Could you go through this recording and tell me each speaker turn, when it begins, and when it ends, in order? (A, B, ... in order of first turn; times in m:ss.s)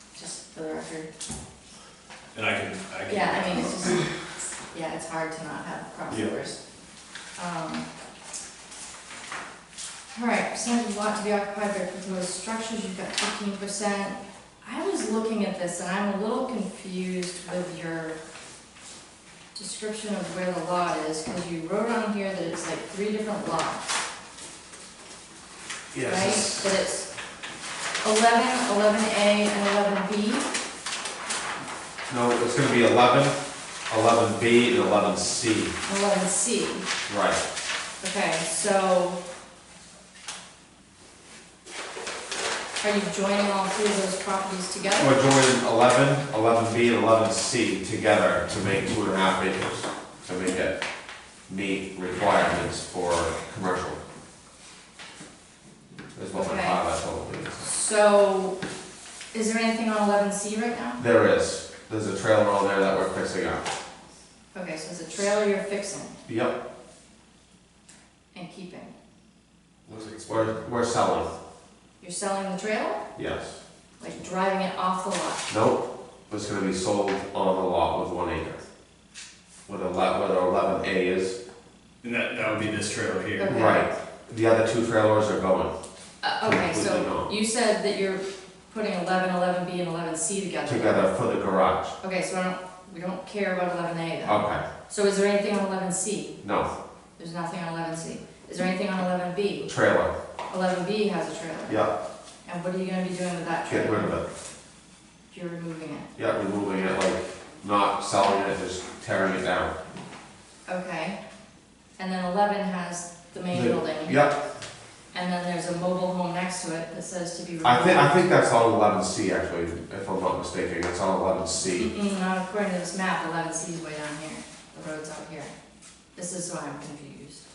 0:00.2-0:01.1 A
0:02.3-0:03.9 B
0:03.1-0:04.1 A
0:04.7-0:06.6 A
0:07.4-0:07.9 A
0:10.1-0:18.1 A
0:19.5-0:23.9 A
0:25.9-0:26.7 C
0:26.0-0:27.1 A
0:28.0-0:30.5 A
0:32.1-0:33.3 C
0:33.9-0:35.7 C
0:35.8-0:36.8 A
0:37.1-0:37.4 C
0:38.0-0:39.2 A
0:42.8-0:45.1 A
0:45.0-0:50.8 C
0:51.5-0:54.0 C
0:56.1-0:57.6 C
0:56.3-0:56.8 A
0:57.6-0:58.6 A
0:59.3-1:01.0 A
1:01.0-1:03.7 C
1:04.5-1:06.2 A
1:06.3-1:06.6 C
1:08.3-1:08.9 A
1:09.9-1:10.5 B
1:10.2-1:11.3 C
1:12.0-1:13.0 A
1:13.2-1:13.6 C
1:14.0-1:15.4 A
1:15.5-1:18.6 C
1:19.7-1:21.4 C
1:22.0-1:23.5 B
1:23.4-1:23.9 A
1:23.4-1:25.7 C
1:26.2-1:31.1 A
1:26.4-1:27.3 C
1:30.6-1:31.9 C
1:32.0-1:36.3 A
1:34.2-1:34.6 C
1:36.4-1:36.7 C
1:37.2-1:39.7 A
1:39.7-1:40.1 C
1:40.5-1:41.8 A
1:42.4-1:44.2 A
1:43.7-1:44.2 C
1:45.3-1:46.1 A
1:46.2-1:49.7 C
1:50.7-1:51.2 A
1:52.0-1:54.2 A
1:53.5-1:54.4 C
1:55.1-1:58.2 A
1:57.6-2:01.9 C
2:01.7-2:05.5 A
2:06.2-2:07.4 A